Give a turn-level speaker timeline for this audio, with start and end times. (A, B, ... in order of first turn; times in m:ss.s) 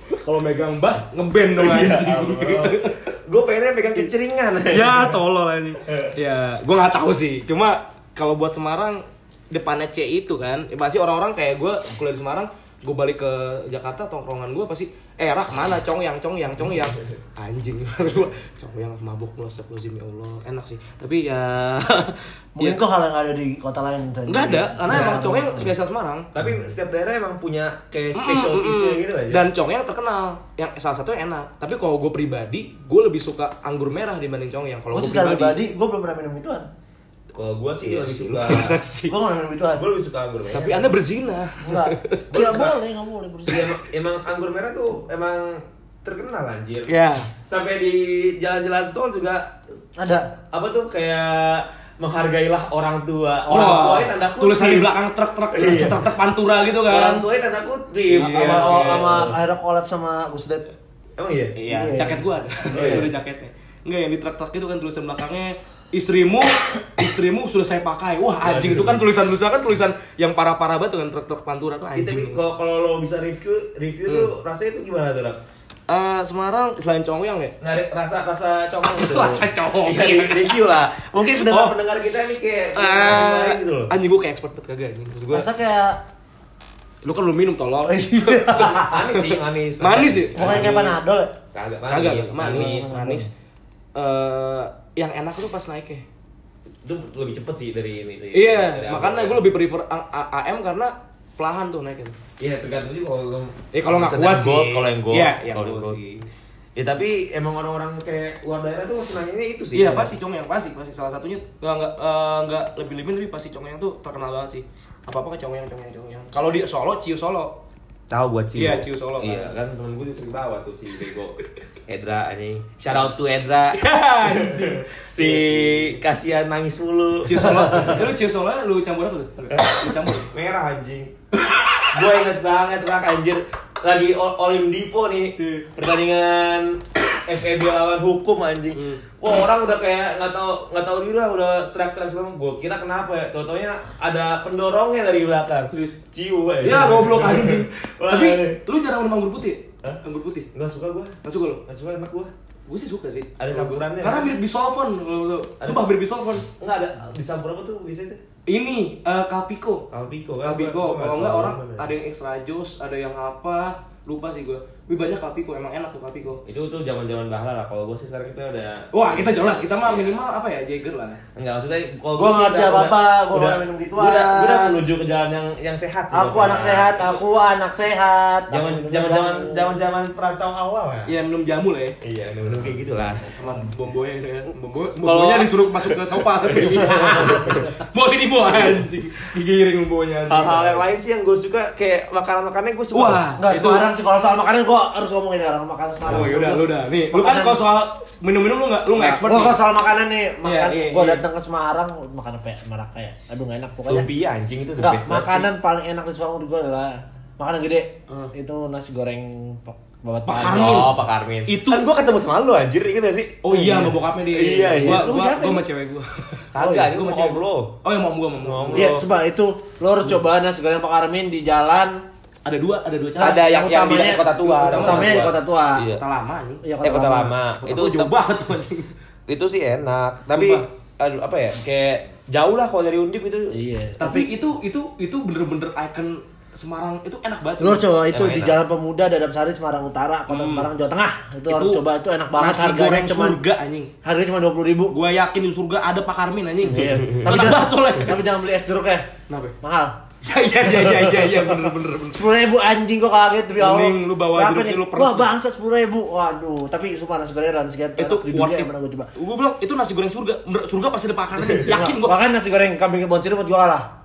0:00.1-0:03.0 A
0:01.6-0:05.2 B
0:04.7-0:22.8 A
0:05.8-0:06.1 B
0:22.6-0:25.7 C
0:24.3-0:26.3 A
0:26.3-0:29.5 B
0:28.1-0:35.6 A
0:34.9-0:36.7 C
0:37.3-0:38.8 B
0:37.8-0:39.2 A
0:39.1-0:39.9 C
0:39.7-0:41.0 B
0:40.5-0:42.4 A
0:41.6-0:43.8 C
0:42.3-0:42.8 B
0:43.4-0:49.5 B
0:46.9-0:47.3 A
0:50.0-0:50.3 C
0:50.5-0:54.9 B
0:53.5-0:57.2 A
0:53.6-0:54.0 C
0:55.5-0:56.0 B
0:56.8-0:59.4 B
0:58.1-0:59.3 A
0:58.1-1:00.7 C
1:01.2-1:01.6 B
1:01.6-1:12.4 A
1:01.6-1:03.1 C
1:02.7-1:03.1 B
1:08.4-1:09.1 B
1:12.0-1:15.4 B
1:14.0-1:14.3 A
1:15.9-1:17.6 A
1:17.6-1:23.9 B
1:18.8-1:20.6 A
1:21.2-1:21.7 A
1:22.7-1:25.5 A
1:25.3-1:26.0 C
1:27.0-1:31.0 A
1:27.9-1:29.0 C
1:28.5-1:31.0 B
1:30.4-1:31.3 C
1:31.5-1:33.0 B
1:31.9-1:33.3 A
1:32.4-1:33.3 C
1:34.0-1:36.0 A
1:36.8-1:39.5 B
1:38.3-1:42.2 A
1:42.4-1:46.0 B
1:43.7-1:46.3 A
1:46.8-1:50.1 B
1:49.7-1:57.6 A
1:58.1-2:08.0 B
1:58.5-1:59.5 A
2:02.8-2:03.1 A
2:03.7-2:06.0 A
2:07.2-2:10.3 A
2:09.5-2:11.1 B
2:11.4-2:11.9 A
2:11.9-2:28.6 B
2:18.7-2:19.0 A
2:25.7-2:26.0 A
2:26.6-2:30.5 A
2:30.5-2:31.1 B
2:31.2-2:31.6 A
2:31.7-2:32.3 B
2:32.7-2:36.4 A
2:33.4-2:34.3 B
2:35.6-2:35.9 B
2:36.4-2:38.2 B
2:38.5-2:39.9 A
2:39.9-2:41.9 B
2:40.4-2:46.4 A
2:46.4-2:50.2 B
2:48.9-2:51.2 A
2:51.4-2:57.2 B
2:52.2-2:54.8 C
2:56.1-2:59.7 C
2:58.5-3:01.1 B
3:01.1-3:02.0 A
3:02.0-3:03.4 B
3:03.3-3:10.8 A
3:05.0-3:07.7 B
3:08.5-3:08.8 B
3:10.3-3:13.2 B
3:12.9-3:13.8 A
3:13.4-3:17.6 C
3:16.0-3:19.6 A
3:18.9-3:24.1 C
3:20.4-3:21.2 A
3:23.9-3:25.5 B
3:24.8-3:30.9 C
3:30.2-3:31.9 A
3:30.4-3:35.1 B
3:33.4-3:39.0 A
3:33.5-3:33.9 C
3:34.7-3:35.6 C
3:36.5-3:37.7 B
3:36.6-3:36.9 C
3:38.4-3:39.1 B
3:38.7-3:42.0 C
3:42.4-3:45.3 A
3:43.2-3:45.9 C
3:43.2-3:46.0 B
3:45.9-3:46.6 A
3:46.6-3:47.4 C
3:46.8-3:48.2 B
3:47.6-3:48.9 A
3:49.3-3:53.6 B
3:50.3-3:50.7 A
3:53.5-3:54.3 C
3:54.0-3:57.9 A
3:57.6-4:03.4 C
3:58.1-3:58.6 B
4:00.3-4:00.7 A
4:01.5-4:01.8 A
4:02.4-4:03.9 A
4:04.0-4:05.0 C
4:04.9-4:08.2 A
4:06.6-4:09.1 C
4:09.3-4:09.5 A
4:09.6-4:10.0 C
4:10.2-4:12.3 A
4:10.8-4:11.1 C
4:12.1-4:19.1 C
4:13.6-4:15.3 A
4:18.0-4:22.2 A
4:21.6-4:23.9 C